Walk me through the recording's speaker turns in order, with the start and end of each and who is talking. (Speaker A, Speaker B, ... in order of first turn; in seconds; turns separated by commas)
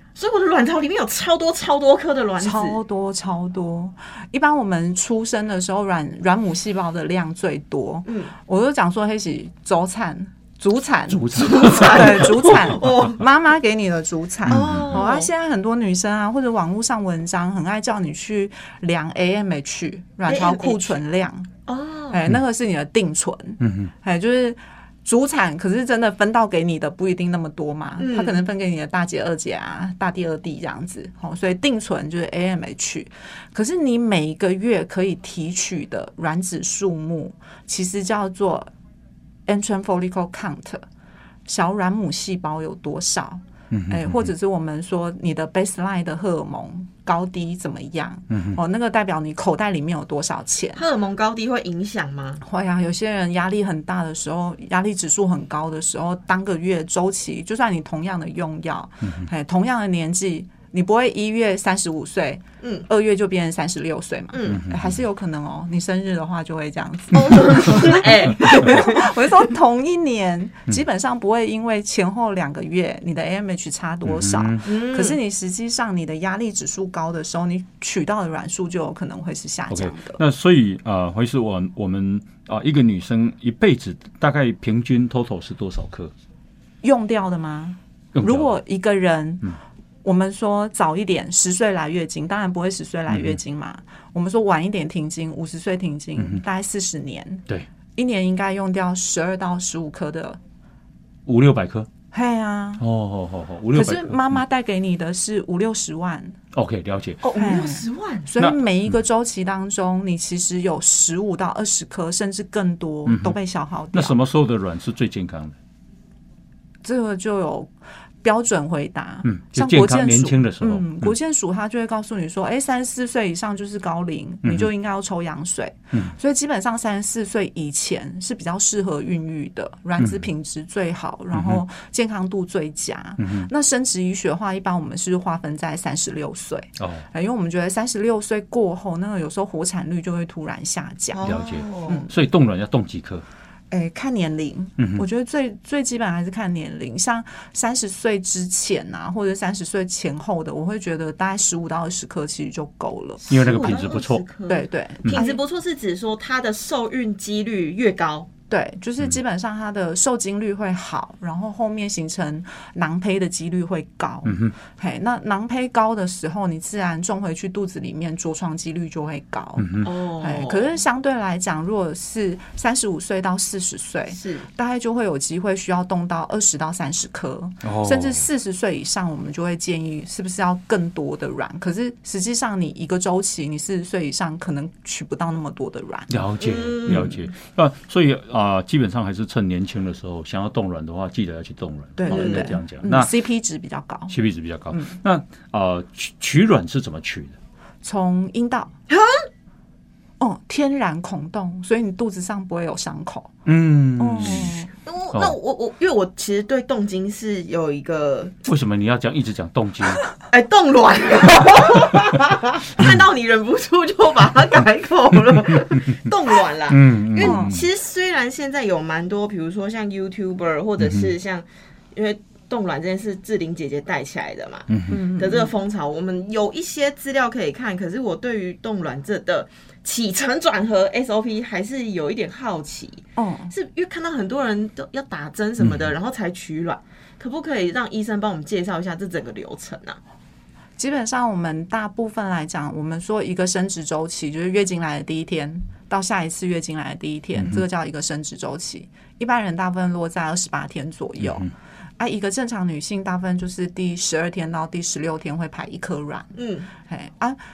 Speaker A: 0.2-2.8, Speaker B: 2.4-21.5, Speaker A: 8.1-8.3, Speaker C: 11.1-12.9, Speaker A: 11.4-13.2, Speaker C: 14.5-15.0, Speaker A: 14.5-15.3, Speaker A: 20.3-21.0, Speaker A: 21.7-22.2, Speaker B: 22.1-38.7, Speaker C: 23.6-23.9, Speaker A: 28.0-28.4, Speaker B: 39.5-40.9, Speaker B: 41.5-50.8, Speaker C: 43.7-44.3, Speaker C: 48.3-48.6, Speaker A: 50.8-52.4, Speaker B: 52.4-80.2, Speaker A: 62.6-62.9, Speaker A: 64.3-64.6, Speaker C: 64.5-65.0, Speaker A: 67.1-69.2, Speaker C: 74.0-74.7, Speaker A: 74.7-75.2, Speaker C: 79.7-86.1, Speaker B: 86.8-100.4, Speaker C: 88.1-88.5, Speaker C: 93.1-93.4, Speaker C: 101.3-101.9, Speaker B: 102.1-102.8, Speaker C: 102.8-104.4, Speaker B: 103.7-106.4, Speaker C: 106.5-107.2, Speaker A: 107.2-108.3, Speaker B: 107.4-114.2, Speaker C: 108.4-108.9, Speaker C: 113.1-113.4, Speaker C: 113.9-115.6, Speaker B: 116.8-117.7, Speaker B: 118.2-141.3, Speaker C: 119.2-121.1, Speaker C: 124.4-124.7, Speaker C: 130.0-130.2, Speaker C: 131.3-131.6, Speaker C: 133.2-133.5, Speaker C: 136.8-137.1, Speaker A: 141.1-142.0, Speaker C: 141.2-143.2, Speaker B: 143.7-153.2, Speaker C: 144.8-145.1, Speaker A: 153.2-158.3, Speaker C: 153.3-154.2, Speaker B: 154.5-155.4, Speaker B: 158.5-186.2, Speaker C: 164.3-164.5, Speaker C: 169.6-169.9, Speaker A: 169.8-170.8, Speaker A: 174.1-174.5, Speaker C: 177.6-178.3, Speaker C: 186.1-193.1, Speaker A: 186.4-187.2, Speaker B: 192.0-194.1, Speaker A: 192.1-192.5, Speaker C: 194.1-197.4, Speaker B: 194.7-195.0, Speaker B: 197.8-198.7, Speaker A: 198.9-199.2, Speaker B: 200.2-203.3, Speaker C: 203.5-204.6, Speaker B: 204.0-204.7, Speaker A: 204.8-208.4, Speaker C: 208.4-210.0, Speaker A: 210.3-240.0, Speaker C: 216.7-217.7, Speaker B: 217.2-217.6, Speaker C: 220.8-221.1, Speaker C: 224.7-225.0, Speaker B: 224.9-225.5, Speaker B: 233.2-233.5, Speaker C: 235.6-235.9, Speaker B: 240.8-257.4, Speaker C: 247.4-247.6, Speaker C: 251.2-251.5, Speaker A: 256.4-256.7